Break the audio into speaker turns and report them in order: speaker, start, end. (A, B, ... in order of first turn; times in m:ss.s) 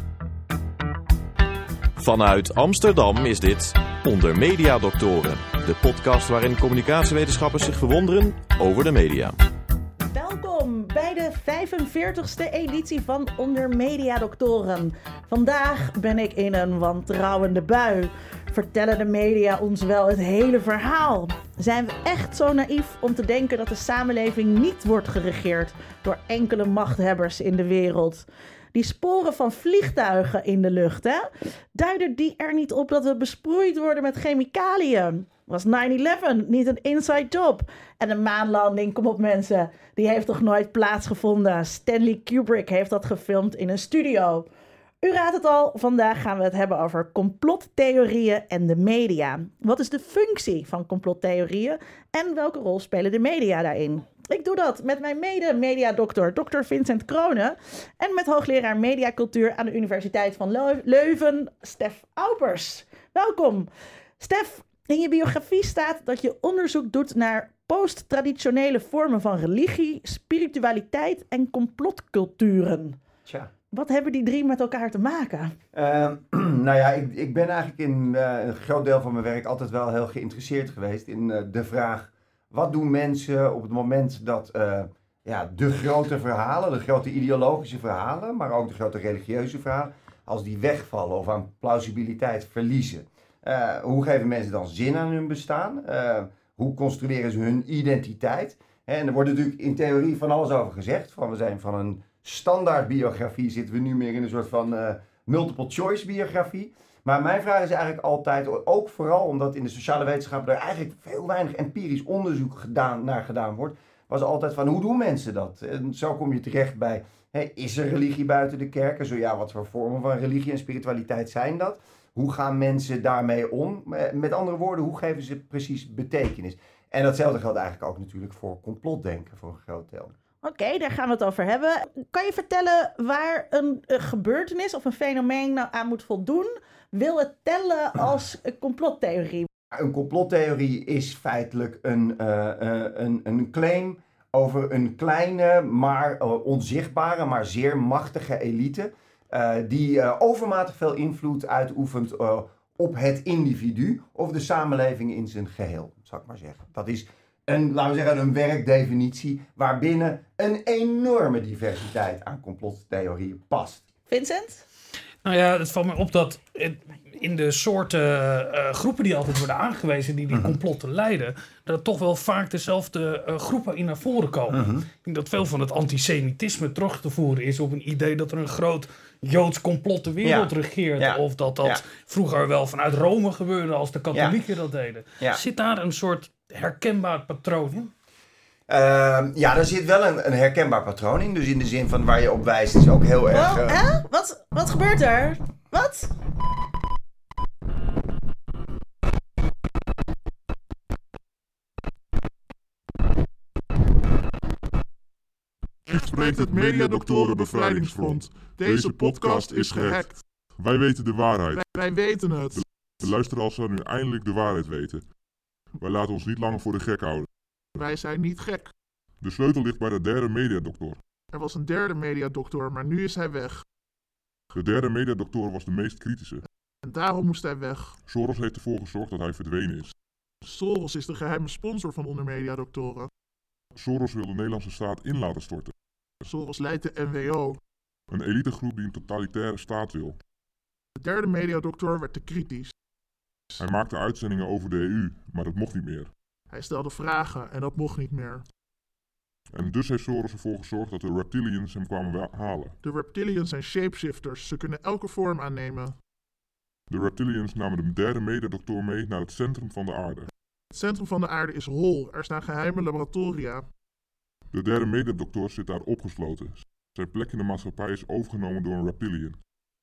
0:02.0-0:09.4 A
0:10.1-0:44.4 B
0:45.0-1:03.7 B
1:04.2-1:13.0 B
1:13.2-1:13.5 C
1:13.7-1:15.5 B
1:15.7-2:10.1 C
2:10.4-2:19.5 B
2:19.7-2:43.8 C
2:44.1-2:44.6 B
2:45.2-3:07.9 D
2:50.3-2:50.6 C
2:54.5-2:54.9 C
3:00.2-3:01.8 C
3:08.7-3:13.8 C
3:13.3-3:16.1 B
3:25.9-3:30.2 E
3:25.9-3:31.8 F
3:31.5-3:32.6 E
3:32.5-3:35.1 F
3:35.8-3:37.3 F
3:37.8-3:38.7 E
3:39.2-3:41.0 F
3:41.3-3:43.6 E
3:44.5-3:46.4 F
3:46.8-3:48.0 E
3:48.0-3:49.9 F
3:50.4-3:53.1 E
3:53.8-3:55.7 F
3:56.2-3:57.6 E
3:58.1-4:00.2 F
4:01.0-4:02.7 E
4:03.6-4:06.1 F
4:06.5-4:08.4 E
4:09.5-4:12.8 F
4:12.8-4:16.0 E
4:16.9-4:20.3 F
4:20.7-4:23.6 E
4:24.5-4:29.4 F